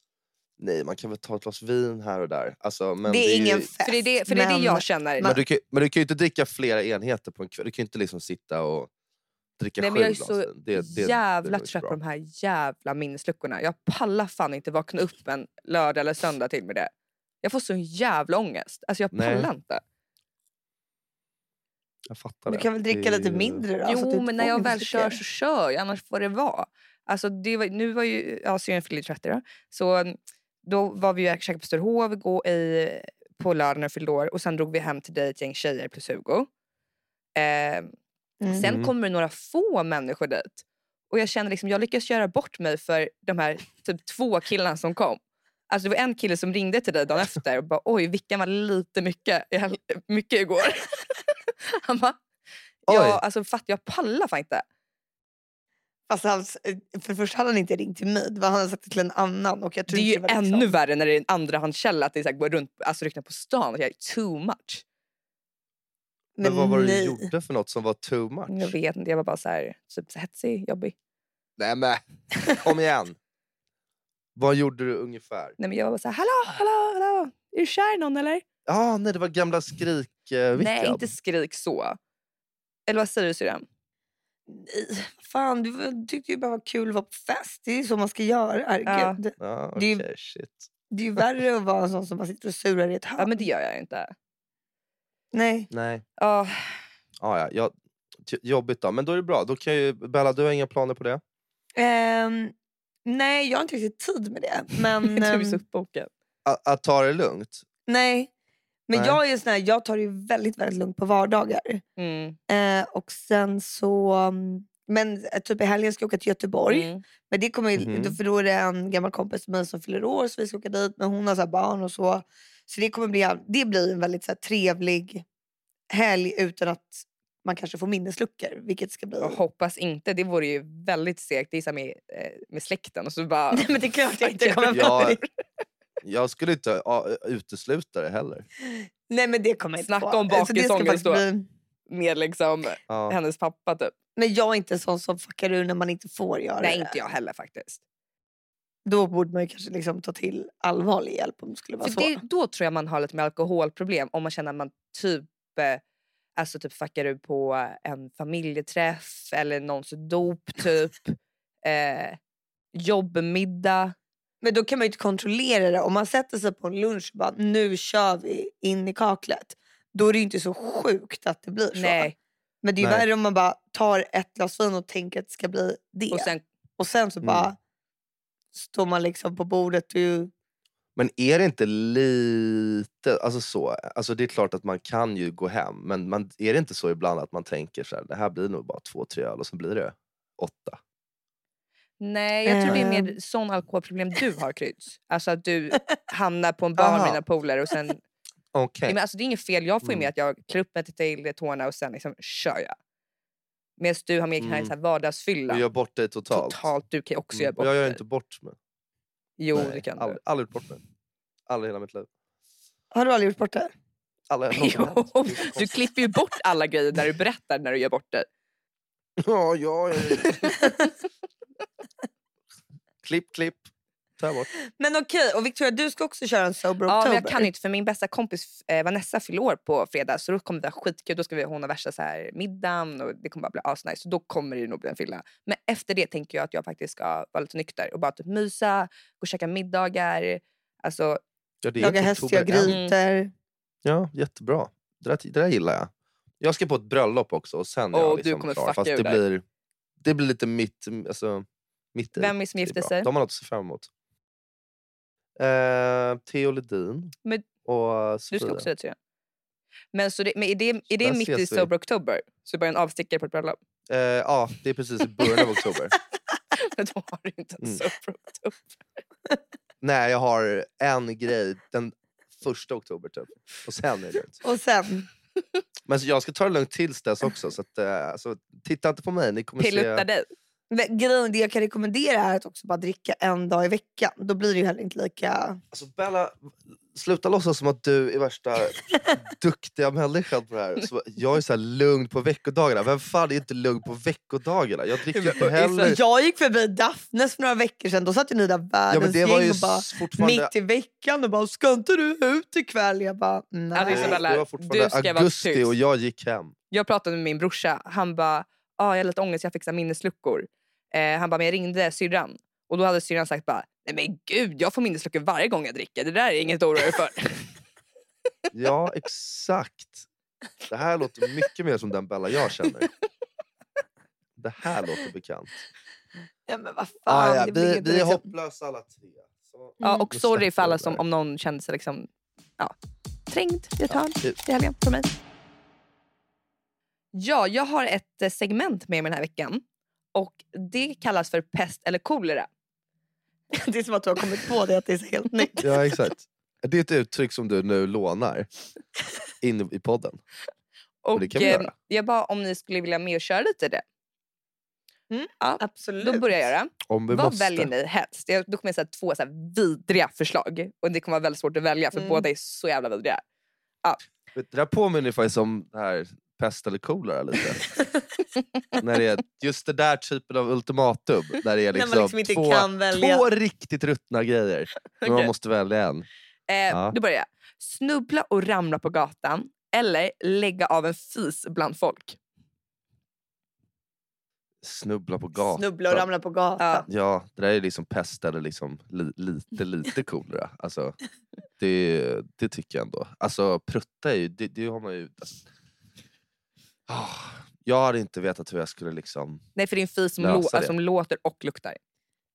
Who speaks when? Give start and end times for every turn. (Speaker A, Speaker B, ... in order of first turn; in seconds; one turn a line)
Speaker A: 0.6-3.7
Speaker B: 3.1-5.4
Speaker C: 3.8-5.3
Speaker A: 5.2-8.9
Speaker A: 9.6-12.0
Speaker C: 9.8-16.9
Speaker C: 17.4-19.8
Speaker A: 19.1-19.5
Speaker A: 22.1-23.6
Speaker B: 22.5-25.2
Speaker C: 23.8-36.5
Speaker C: 37.3-37.9
Speaker C: 38.5-52.2
Speaker A: 38.6-38.9
Speaker C: 52.9-54.6
Speaker A: 52.9-53.2
Speaker B: 56.1-60.7
Speaker C: 59.9-64.8
Speaker B: 66.4-67.3
Speaker A: 66.4-68.7
Speaker C: 68.5-70.9
Speaker A: 71.6-73.2
Speaker A: 74.4-75.6
Speaker C: 75.6-78.4
Speaker A: 78.7-81.1
Speaker C: 80.6-82.0
Speaker C: 82.9-83.7
Speaker B: 84.5-90.0
Speaker C: 88.9-89.2
Speaker A: 89.4-90.7
Speaker B: 90.9-93.3
Speaker C: 93.2-94.1
Speaker B: 95.3-95.7
Speaker A: 95.7-96.0
Speaker C: 96.2-96.8
Speaker A: 97.2-97.7
Speaker A: 98.2-101.2
Speaker B: 101.8-102.5
Speaker B: 103.1-105.6
Speaker C: 105.0-106.1
Speaker A: 106.4-107.6
Speaker B: 107.9-108.3
Speaker B: 108.9-111.8
Speaker A: 108.9-109.2
Speaker C: 112.0-112.4
Speaker B: 112.5-125.2
Speaker C: 116.7-117.0
Speaker A: 117.8-118.2
Speaker B: 125.9-129.4
Speaker C: 129.2-135.3
Speaker B: 133.5-135.2
Speaker A: 134.7-135.2
Speaker A: 136.0-138.4
Speaker B: 138.6-141.5
Speaker C: 139.8-141.2
Speaker C: 141.9-143.9
Speaker A: 142.9-143.2
Speaker B: 144.2-146.9
Speaker C: 146.6-147.8
Speaker B: 148.9-152.2
Speaker C: 151.8-155.8
Speaker C: 156.4-162.2
Speaker C: 162.8-163.9
Speaker B: 164.4-172.1
Speaker C: 171.7-172.2
Speaker B: 172.6-177.6
Speaker A: 172.8-173.1
Speaker C: 176.1-176.4
Speaker B: 178.6-180.3
Speaker A: 180.9-190.8
Speaker C: 192.0-198.0
Speaker B: 192.4-193.1
Speaker A: 196.8-197.2
Speaker A: 198.5-198.9
Speaker C: 198.9-202.8
Speaker C: 203.8-205.6
Speaker A: 204.4-204.7
Speaker A: 205.5-206.7
Speaker C: 206.3-208.0
Speaker A: 207.3-208.6
Speaker C: 209.4-210.2
Speaker A: 209.5-210.8
Speaker A: 211.5-212.1
Speaker B: 212.9-213.7
Speaker A: 214.3-215.9
Speaker C: 214.6-218.3
Speaker A: 219.2-220.6
Speaker C: 220.0-220.9
Speaker A: 223.0-224.5
Speaker B: 224.8-227.5
Speaker C: 226.9-241.2
Speaker A: 241.6-242.8
Speaker B: 241.8-243.3
Speaker C: 242.7-242.9
Speaker A: 243.8-249.4
Speaker C: 247.9-249.2
Speaker A: 250.0-253.9
Speaker C: 252.2-253.1
Speaker A: 255.4-258.7
Speaker C: 258.3-259.0
Speaker C: 259.9-263.6
Speaker A: 260.9-261.7
Speaker A: 263.9-265.9
Speaker C: 266.5-268.7
Speaker A: 269.8-274.4
Speaker B: 274.4-275.1
Speaker A: 275.9-280.0
Speaker C: 279.6-280.3
Speaker B: 280.7-285.6
Speaker A: 285.7-296.0
Speaker C: 295.1-295.9
Speaker B: 295.8-304.2
Speaker A: 298.9-300.5
Speaker C: 303.7-305.7
Speaker A: 303.9-306.5
Speaker C: 306.7-317.5
Speaker A: 318.5-320.1
Speaker A: 320.7-322.9
Speaker A: 324.4-325.6
Speaker B: 326.5-328.3
Speaker A: 327.1-331.0
Speaker B: 329.8-330.1
Speaker C: 329.8-332.1
Speaker C: 333.3-335.2
Speaker A: 333.9-334.4
Speaker C: 337.1-339.6
Speaker C: 340.1-342.5
Speaker B: 343.5-345.7
Speaker A: 345.6-348.5
Speaker A: 349.4-350.2
Speaker C: 351.0-353.8
Speaker A: 351.1-351.7
Speaker B: 355.1-356.4
Speaker C: 355.4-363.2
Speaker A: 356.9-357.7
Speaker B: 361.9-362.2
Speaker A: 364.3-367.6
Speaker A: 368.8-376.1
Speaker B: 371.7-373.2
Speaker C: 375.0-375.3
Speaker C: 376.5-382.2
Speaker A: 376.7-377.0
Speaker A: 384.6-386.1
Speaker B: 385.5-386.9
Speaker C: 386.6-386.9
Speaker A: 386.9-391.0
Speaker A: 391.6-395.4
Speaker A: 396.9-399.4
Speaker C: 399.6-401.8
Speaker A: 400.2-400.7